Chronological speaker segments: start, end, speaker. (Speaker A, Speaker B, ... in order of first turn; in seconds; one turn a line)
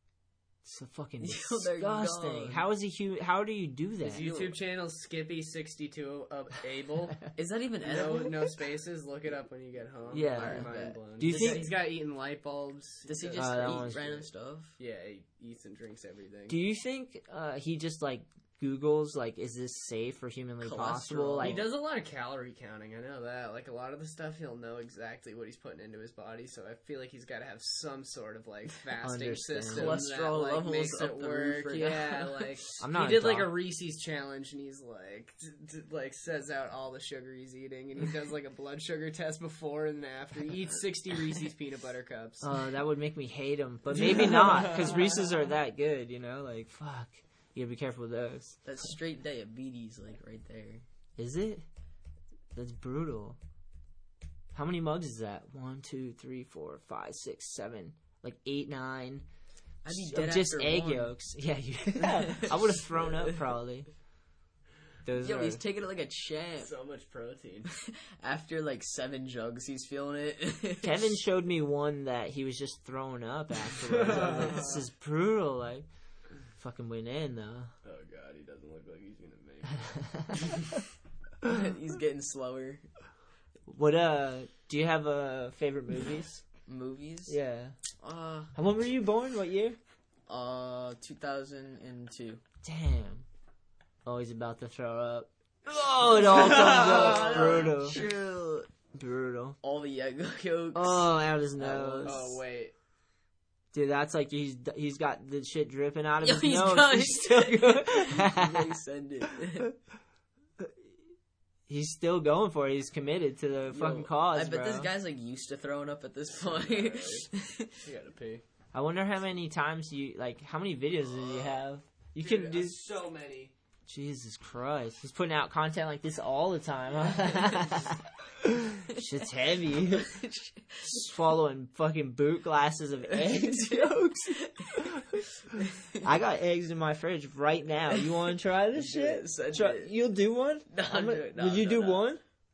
Speaker A: 0.6-4.3
Speaker B: 1.2-2.6
Speaker C: 4.0-7.2
Speaker B: 4.2-4.6
Speaker B: 7.3-8.6
Speaker C: 7.8-14.2
Speaker A: 10.1-11.7
Speaker B: 10.2-11.8
Speaker B: 13.1-14.8
Speaker A: 13.3-14.2
Speaker C: 14.8-16.6
Speaker A: 16.5-21.7
Speaker B: 20.6-21.7
Speaker C: 21.4-42.5
Speaker A: 29.0-30.0
Speaker B: 29.7-32.5
Speaker A: 32.8-33.5
Speaker A: 42.4-48.6
Speaker C: 44.1-45.0
Speaker B: 48.6-50.8
Speaker A: 51.2-51.6
Speaker A: 52.5-53.4
Speaker A: 54.5-59.3
Speaker B: 59.8-61.1
Speaker A: 59.9-63.9
Speaker B: 62.0-62.5
Speaker A: 65.0-65.6
Speaker B: 65.2-66.7
Speaker C: 66.6-67.7
Speaker B: 67.7-71.0
Speaker A: 70.8-75.9
Speaker C: 74.0-74.7
Speaker A: 76.6-77.7
Speaker C: 77.8-79.9
Speaker B: 81.4-82.9
Speaker A: 83.7-86.4
Speaker B: 86.7-87.4
Speaker A: 87.3-87.8
Speaker B: 88.0-88.5
Speaker A: 88.5-89.8
Speaker B: 90.3-92.4
Speaker A: 92.6-93.3
Speaker A: 94.0-98.0
Speaker B: 96.0-98.7
Speaker C: 96.7-97.6
Speaker A: 98.9-99.6
Speaker B: 99.6-102.4
Speaker A: 100.7-102.3
Speaker C: 102.0-102.7
Speaker A: 103.7-108.7
Speaker B: 106.2-109.7
Speaker A: 111.7-114.9
Speaker B: 113.7-117.8
Speaker C: 116.4-117.3
Speaker C: 117.8-118.4
Speaker A: 118.7-122.8
Speaker C: 122.2-123.5
Speaker A: 123.9-130.1
Speaker B: 130.0-131.0
Speaker A: 130.8-135.0
Speaker B: 133.1-134.8
Speaker B: 135.6-136.0
Speaker A: 136.0-142.2
Speaker B: 138.7-139.9
Speaker B: 140.7-142.1